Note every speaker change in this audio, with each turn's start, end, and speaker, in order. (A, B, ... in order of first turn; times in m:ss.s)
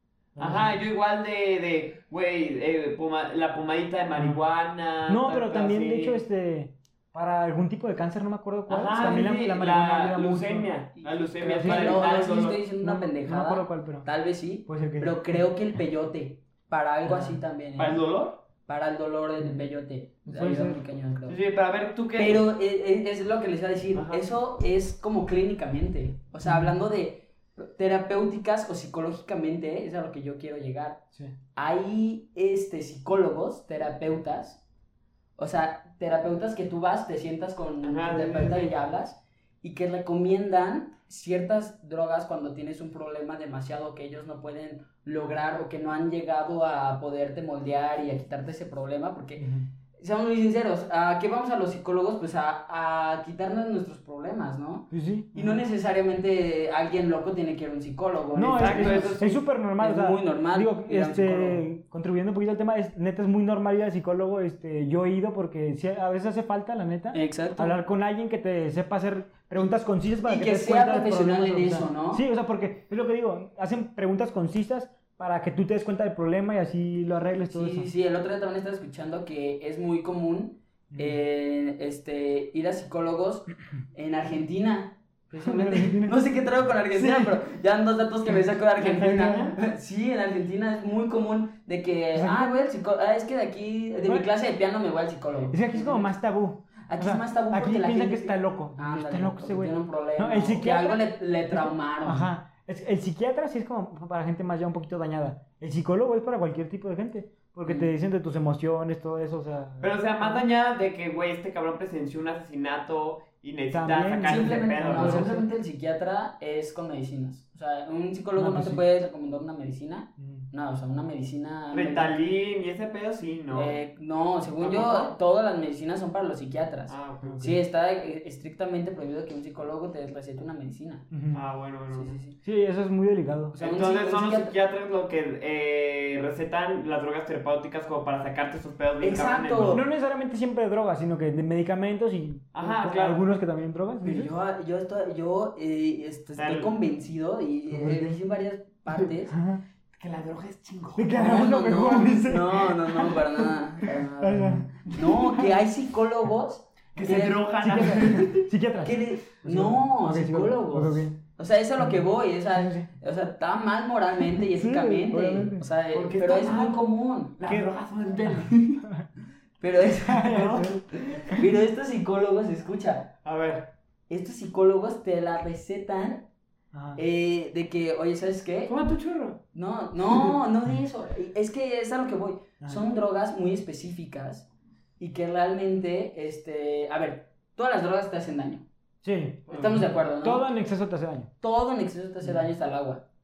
0:00.4-0:00.8 A
0:00.4-0:06.2 B
0:04.2-0:04.4 A
0:05.1-0:10.7 A
0:08.7-0:09.2 C
0:08.7-0:12.6 B
0:11.0-0:18.0 C
0:11.5-0:12.2 A
0:12.8-0:14.1 A
0:14.7-0:15.4 A
0:17.1-0:17.4 A
0:17.8-0:18.4 B
0:18.7-0:21.4 C
0:20.3-0:20.8 A
0:21.3-0:22.5 B
0:22.2-0:31.0 C
0:23.9-0:24.2 B
0:26.4-0:26.7 A
0:31.6-0:34.6 C
0:35.4-1:01.6 C
0:37.8-0:38.7 B
0:38.2-0:38.5 A
0:49.4-0:49.7 A
0:54.9-0:55.6 A
0:58.4-1:17.9 A
0:58.5-0:59.4 B
1:07.1-1:07.8 C
1:10.2-1:12.2 C
1:17.5-1:36.1 C
1:20.9-1:21.2 A
1:25.4-1:26.2 A
1:27.0-1:27.3 A
1:28.8-1:29.6 B
1:29.0-1:29.4 A
1:32.2-1:32.6 A
1:34.0-1:34.3 A
1:35.5-1:50.5 A
1:36.9-1:42.3 C
1:49.8-1:55.4 B
1:53.7-1:55.4 A
1:54.2-2:02.1 C
1:58.4-1:58.8 A
2:00.2-2:00.4 A
2:01.7-2:03.8 B
2:03.5-2:11.1 C
2:04.6-2:05.1 B
2:06.9-2:07.4 B
2:07.2-2:07.6 A
2:11.1-2:11.4 A
2:11.3-2:12.2 B
2:11.9-2:12.4 C
2:12.4-2:13.6 A
2:13.5-2:14.5 C
2:13.6-2:19.8 B
2:19.0-2:19.8 C
2:19.7-2:24.3 A
2:22.5-2:23.2 B
2:24.0-2:29.4 C
2:26.4-2:26.7 B
2:27.7-2:28.2 A
2:29.3-2:29.6 A
2:30.0-2:31.1 B
2:31.0-2:35.5 A
2:31.1-2:38.3 C
2:37.0-2:38.5 B
2:37.6-2:41.2 A
2:38.8-2:47.4 C
2:41.8-2:42.9 A
2:44.2-2:45.6 A
2:45.9-2:46.8 B
2:47.4-2:48.7 B
2:47.4-2:47.7 A
2:48.3-2:49.1 A
2:49.6-2:53.1 C
2:50.0-2:51.5 A
2:50.3-2:50.6 B
2:53.2-2:53.7 B
2:54.1-2:56.3 C
2:56.7-2:57.0 A
2:57.0-2:58.8 C
2:58.7-2:59.4 B
2:59.5-3:04.5 C
3:05.0-3:08.6 C
3:09.0-3:11.3 A
3:09.5-3:10.5 C
3:09.5-3:09.8 B
3:11.4-3:13.0 C